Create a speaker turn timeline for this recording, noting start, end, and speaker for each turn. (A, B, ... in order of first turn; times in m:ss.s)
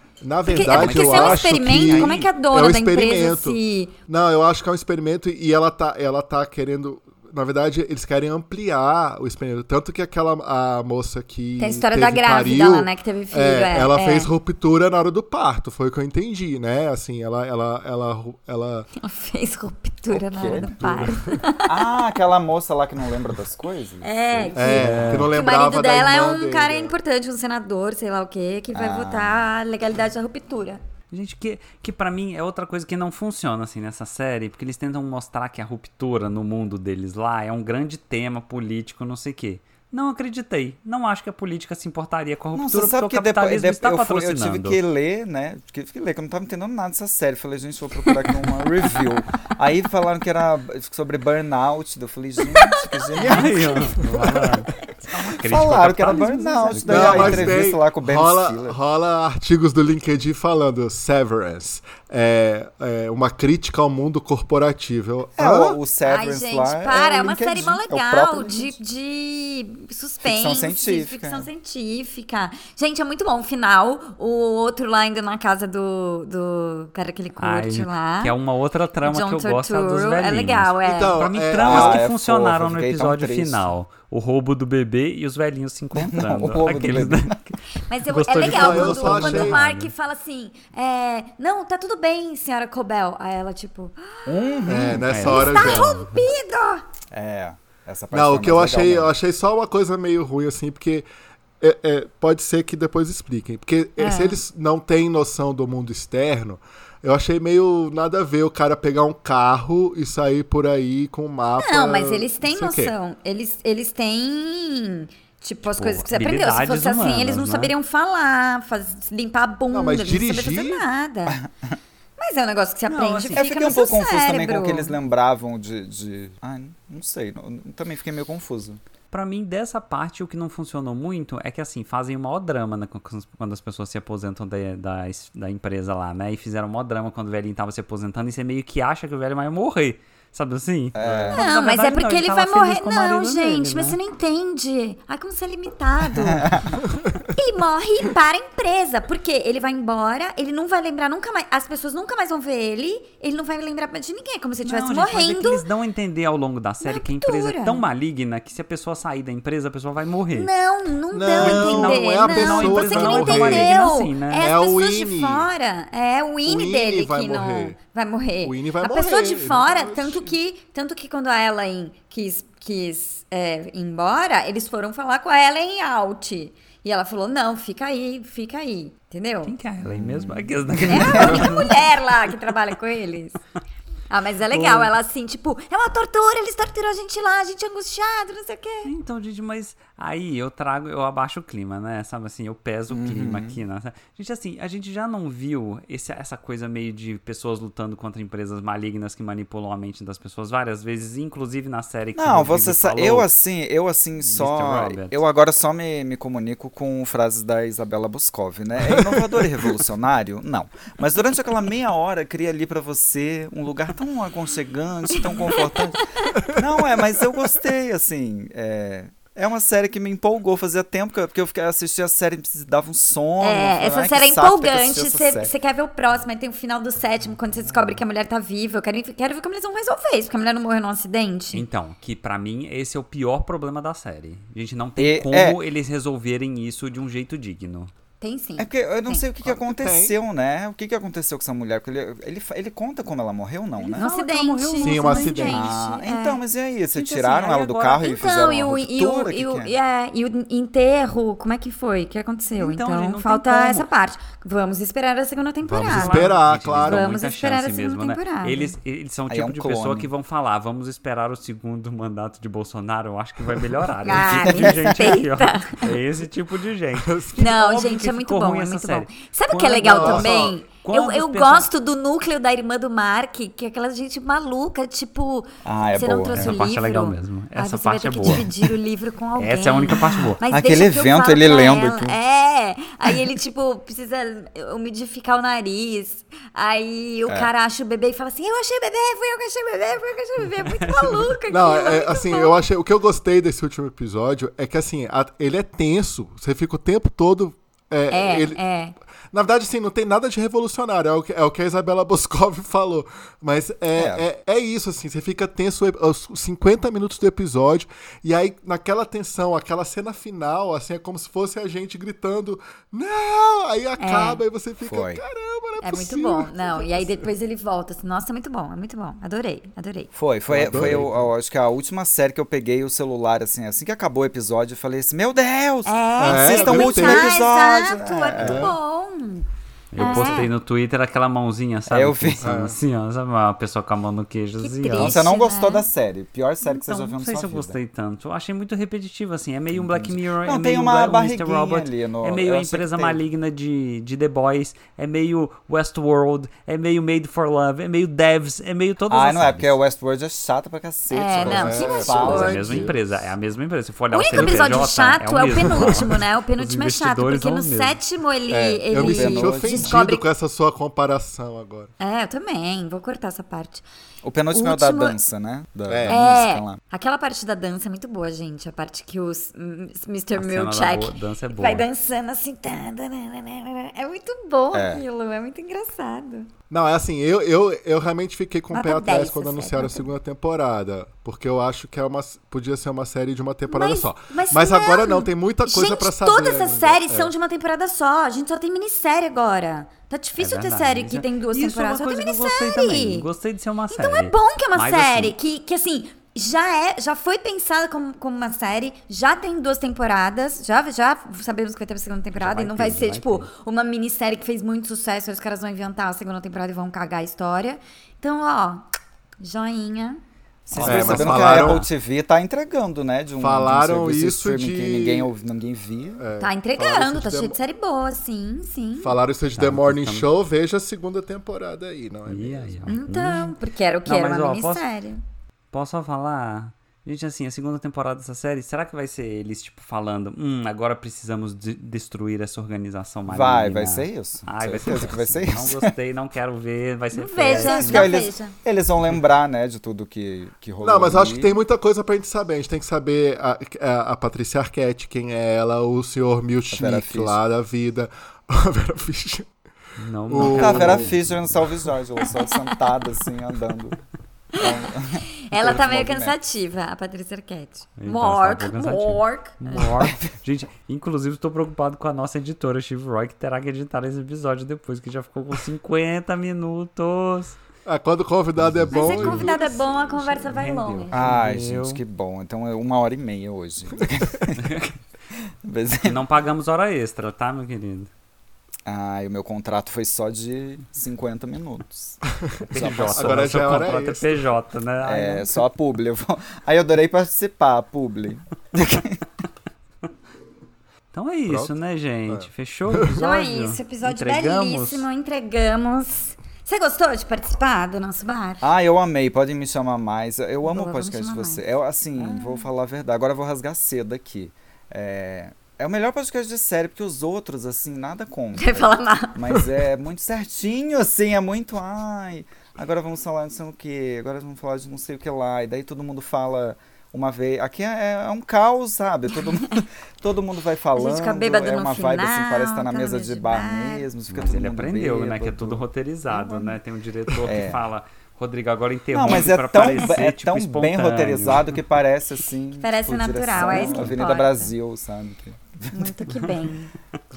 0:00.2-0:18.9 A
0:00.4-0:04.0 B
0:00.6-0:02.1 C
0:00.8-0:01.1 D
0:11.6-0:14.3 B
0:19.0-0:21.7 B
0:20.1-0:20.8 D
0:20.5-0:21.4 A
0:21.6-0:25.2 D
0:24.0-0:30.8 B
0:24.5-0:26.9 A
0:24.8-0:25.3 C
0:28.7-0:29.4 D
0:31.1-0:44.8 C
0:42.5-0:54.1 D
0:52.4-0:54.5 B
0:53.2-0:57.6 C
0:55.4-0:58.8 D
0:56.2-0:57.2 B
0:56.8-1:05.8 A
1:05.4-1:08.8 D
1:06.0-1:18.4 B
1:10.2-1:11.5 D
1:17.4-1:29.9 C
1:19.0-1:21.2 B
1:20.8-1:22.0 A
1:21.6-1:23.7 D
1:25.9-1:27.4 D
1:27.8-1:36.8 B
1:28.4-1:29.6 A
1:34.2-1:35.1 D
1:34.6-1:36.0 A
1:35.0-1:36.3 C
1:37.1-1:39.1 D
1:38.1-1:41.0 A
1:41.6-1:52.9 A
1:44.0-1:44.4 B
1:51.6-2:01.4 B
1:55.8-1:57.7 C
1:59.7-2:00.8 A
2:01.3-2:01.8 D
2:02.2-2:05.0 B
2:02.9-2:03.4 C
2:03.3-2:08.8 D
2:09.1-2:24.0 C
2:20.9-2:21.4 D
2:21.0-2:21.4 A
2:21.3-2:26.6 B
2:26.2-2:26.8 D
2:27.3-2:35.6 B
2:34.6-2:40.5 C
2:36.8-2:37.8 B
2:40.3-2:59.5 B
2:41.1-2:43.7 A
2:41.4-2:44.5 C
2:44.4-2:45.5 A
2:46.4-2:47.8 A
2:48.4-2:50.3 A
2:59.4-3:01.8 C
2:59.8-3:01.6 D
3:00.9-3:03.4 B
3:04.1-3:08.9 B
3:04.5-3:04.8 C
3:08.8-3:23.3 C
3:12.9-3:13.6 D
3:22.2-3:45.5 D
3:24.2-3:25.2 C
3:28.8-3:29.4 A
3:43.4-3:51.6 B
3:51.5-3:57.9 C
3:55.0-3:55.6 D
3:58.2-3:59.3 B
3:58.6-4:04.1 D
3:59.4-4:00.2 A
4:03.8-4:05.5 C
4:03.9-4:06.4 B
4:04.8-4:05.7 A
4:05.5-4:09.7 D
4:06.9-4:08.1 C
4:08.0-4:18.7 B
4:12.6-4:13.9 C
4:15.6-4:17.1 A
4:15.8-4:31.7 C
4:19.3-4:20.1 D
4:24.0-4:25.9 B
4:24.2-4:25.1 D
4:27.0-4:27.6 A
4:27.3-4:52.6 B
4:29.8-4:30.5 A
4:35.6-4:36.6 D
4:36.3-4:38.5 C
4:39.4-4:40.4 C
4:40.4-4:42.2 D
4:50.6-4:51.3 C
4:51.5-4:58.6 A
4:58.1-4:58.9 B
4:59.3-5:17.3 A
5:03.9-5:04.2 D
5:14.0-5:14.4 B
5:14.8-5:15.2 D
5:15.8-5:20.1 B
5:20.1-5:28.7 D
5:20.5-5:21.1 A
5:20.6-5:21.0 C
5:25.8-5:29.4 B
5:26.2-5:27.3 A
5:28.4-5:28.7 A
5:29.9-5:35.2 C
5:30.0-5:30.5 B
5:30.0-5:30.4 D
5:31.9-5:32.4 D
5:32.4-5:32.8 A
5:34.6-5:35.9 B
5:34.9-5:37.8 D
5:36.6-5:49.8 C
5:39.7-5:43.2 D
5:49.1-5:52.9 D
5:51.1-5:52.6 B
5:51.4-5:53.3 A
5:52.1-5:58.0 C
5:54.1-6:00.3 B
5:54.3-5:54.8 A
5:55.5-5:56.0 A
5:58.5-6:01.9 A
5:58.9-6:00.0 D
6:02.0-6:03.8 B
6:04.2-6:06.8 D
6:04.5-6:05.2 B
6:05.9-6:06.2 A
6:06.1-6:16.5 B
6:10.4-6:11.9 C
6:14.7-6:15.0 D
6:16.7-6:27.3 A
6:18.7-6:20.1 B
6:23.7-6:33.3 B
6:30.4-6:35.4 C
6:33.9-6:48.8 B
6:42.4-6:43.5 C
6:49.4-6:50.2 B
6:50.6-6:56.2 D
6:50.7-6:51.9 C
6:50.8-6:51.8 A
6:53.4-6:55.3 A
6:56.2-6:57.6 A
6:56.4-6:59.2 B
6:59.0-7:02.8 A
6:59.6-7:00.3 C
7:02.2-7:03.5 C
7:02.8-7:05.2 B
7:04.0-7:04.8 C
7:05.7-7:18.1 C
7:13.2-7:15.9 D
7:17.1-7:18.5 B
7:17.4-7:21.5 D
7:20.8-7:29.5 A
7:26.7-7:27.4 D
7:30.0-7:31.4 C
7:30.3-7:31.1 A
7:30.4-7:34.0 D
7:32.4-7:32.7 B
7:34.5-7:34.8 B
7:34.5-7:36.4 D
7:35.4-7:39.9 B
7:38.0-7:47.6 C
7:47.8-7:50.0 A
7:48.9-7:51.3 B
7:48.9-7:52.0 C
7:51.1-7:54.8 D
7:54.6-7:54.9 C
7:55.6-7:56.2 D
7:56.0-7:58.1 C
7:58.8-8:02.2 D
8:02.4-8:04.5 A
8:02.6-8:05.6 C
8:02.7-8:04.0 D
8:05.0-8:09.3 D
8:11.1-8:15.1 C
8:11.5-8:11.7 A
8:12.3-8:13.2 A
8:13.2-8:18.6 B
8:18.6-8:45.8 D
8:20.6-8:21.6 B
8:22.2-8:22.7 B
8:28.6-8:29.7 B
8:40.9-8:44.1 B
8:44.3-8:51.7 C
8:46.3-8:46.7 B
8:47.4-8:47.8 D
8:49.1-8:56.1 D
8:52.8-8:54.7 B
8:53.6-8:54.1 C
8:55.9-8:56.9 B